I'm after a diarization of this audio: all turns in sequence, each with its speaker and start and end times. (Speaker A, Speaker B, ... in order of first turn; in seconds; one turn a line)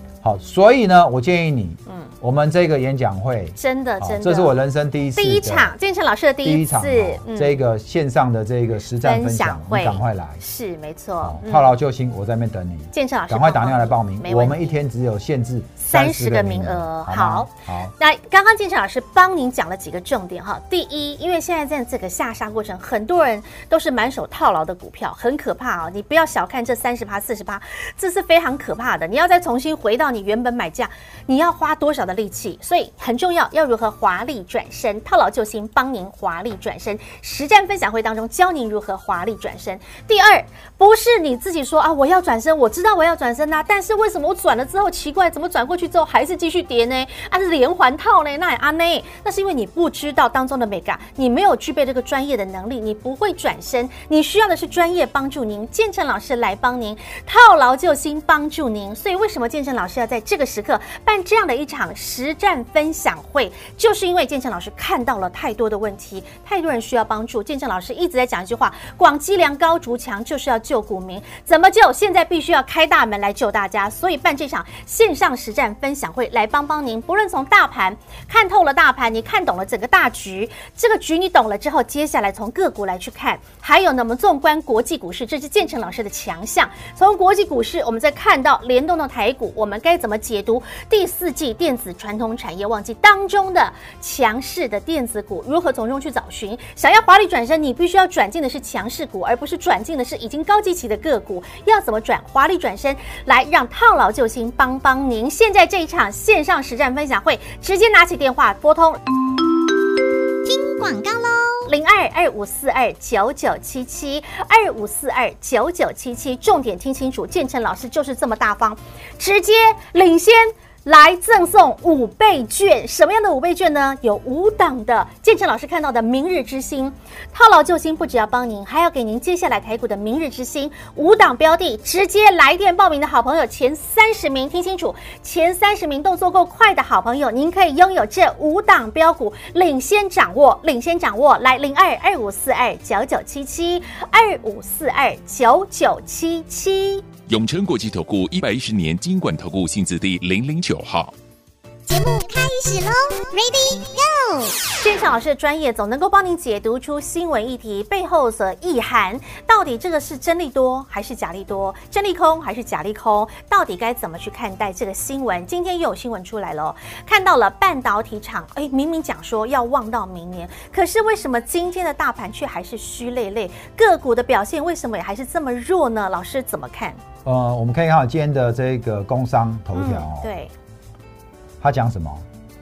Speaker A: 0.2-5.7
Speaker B: 1.9-2.1
Speaker B: 3.5-4.6
Speaker B: 5.2-7.6
Speaker A: 6.4-10.4
Speaker B: 9.0-11.7
Speaker A: 11.2-17.9
Speaker B: 12.9-14.8
Speaker B: 15.8-109.0
Speaker C: 110.4-111.7
Speaker B: 111.7-147.1
Speaker D: 147.3-151.1
Speaker C: 151.9-154.6
Speaker B: 154.7-177.0
Speaker A: 177.2-180.3
Speaker B: 179.7-180.5
Speaker A: 181.6-182.2